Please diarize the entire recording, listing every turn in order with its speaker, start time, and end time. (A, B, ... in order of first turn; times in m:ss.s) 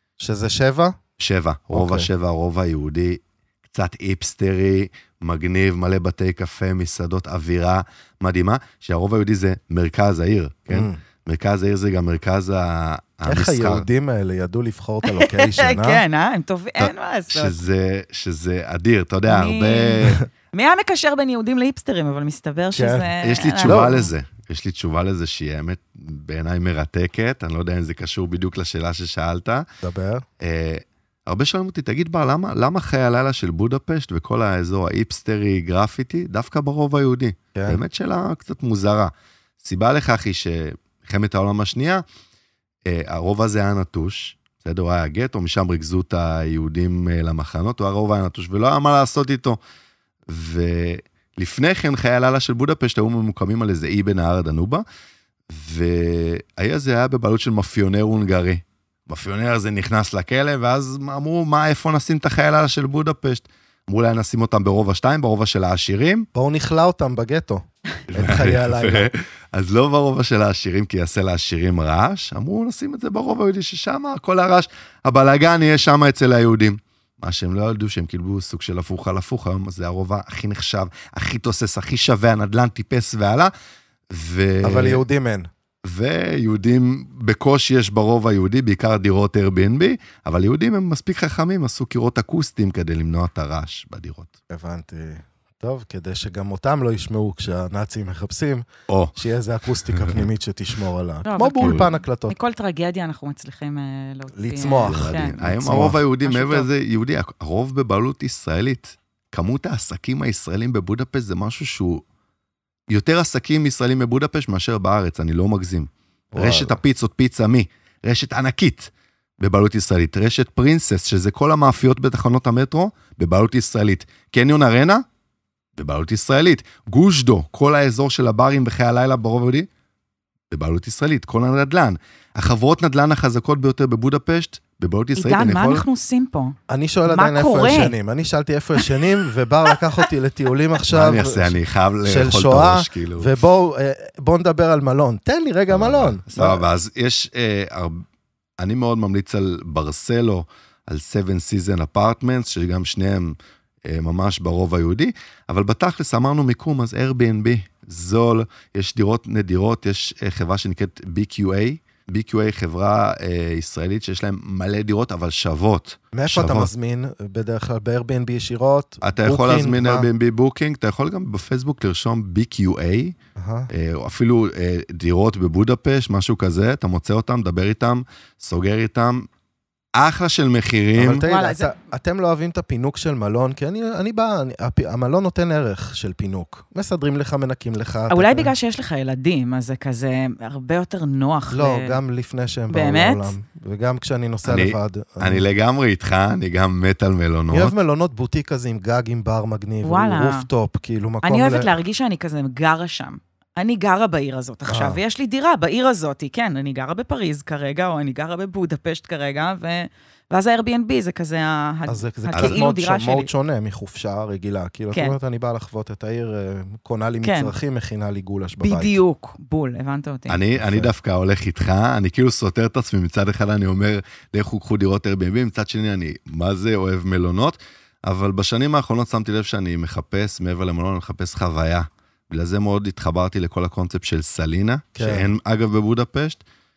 0:00.2-0:01.0 A
0:01.2-0:13.9 B
0:01.7-0:02.1 A
0:10.7-0:11.0 A
0:13.3-0:16.0 A
0:15.0-0:17.6 C
0:16.8-0:20.2 B
0:19.3-0:24.0 C
0:22.8-0:23.1 A
0:23.2-0:29.6 B
0:23.6-0:24.0 A
0:29.8-0:30.2 A
0:30.4-0:42.0 B
0:37.5-0:37.8 A
0:42.9-0:49.6 B
0:50.3-0:54.8 B
0:55.5-1:06.3 B
1:06.3-1:09.1 A
1:08.1-1:23.5 B
1:24.1-1:25.0 B
1:24.6-1:25.5 A
1:25.8-1:34.3 B
1:34.5-1:42.4 A
1:38.9-1:39.1 B
1:39.9-1:40.2 B
1:41.3-1:46.7 C
1:41.6-1:41.9 B
1:44.4-1:46.0 A
1:44.9-1:52.0 B
1:52.9-2:05.0 B
1:56.3-1:56.8 A
2:05.8-2:09.7 B
2:10.5-2:15.8 B
2:15.2-2:16.6 C
2:16.7-2:26.6 A
2:17.1-2:17.9 C
2:20.9-2:23.4 B
2:25.7-2:28.0 B
2:28.6-2:46.7 B
2:46.1-2:50.1 A
2:49.0-2:53.2 B
2:53.4-2:53.7 A
2:53.7-2:59.3 B
2:59.9-3:01.2 B
3:01.0-3:08.5 A
3:01.2-3:01.7 C
3:08.1-3:12.0 C
3:11.5-3:15.4 A
3:12.7-3:13.4 C
3:14.4-3:17.8 B
3:17.5-3:21.7 A
3:19.8-3:20.5 C
3:21.2-3:33.3 C
3:24.7-3:25.0 A
3:31.9-3:39.0 A
3:32.3-3:32.6 B
3:37.2-3:37.5 C
3:38.6-3:40.4 C
3:40.3-3:56.4 B
3:40.6-3:40.9 A
3:54.9-3:55.3 A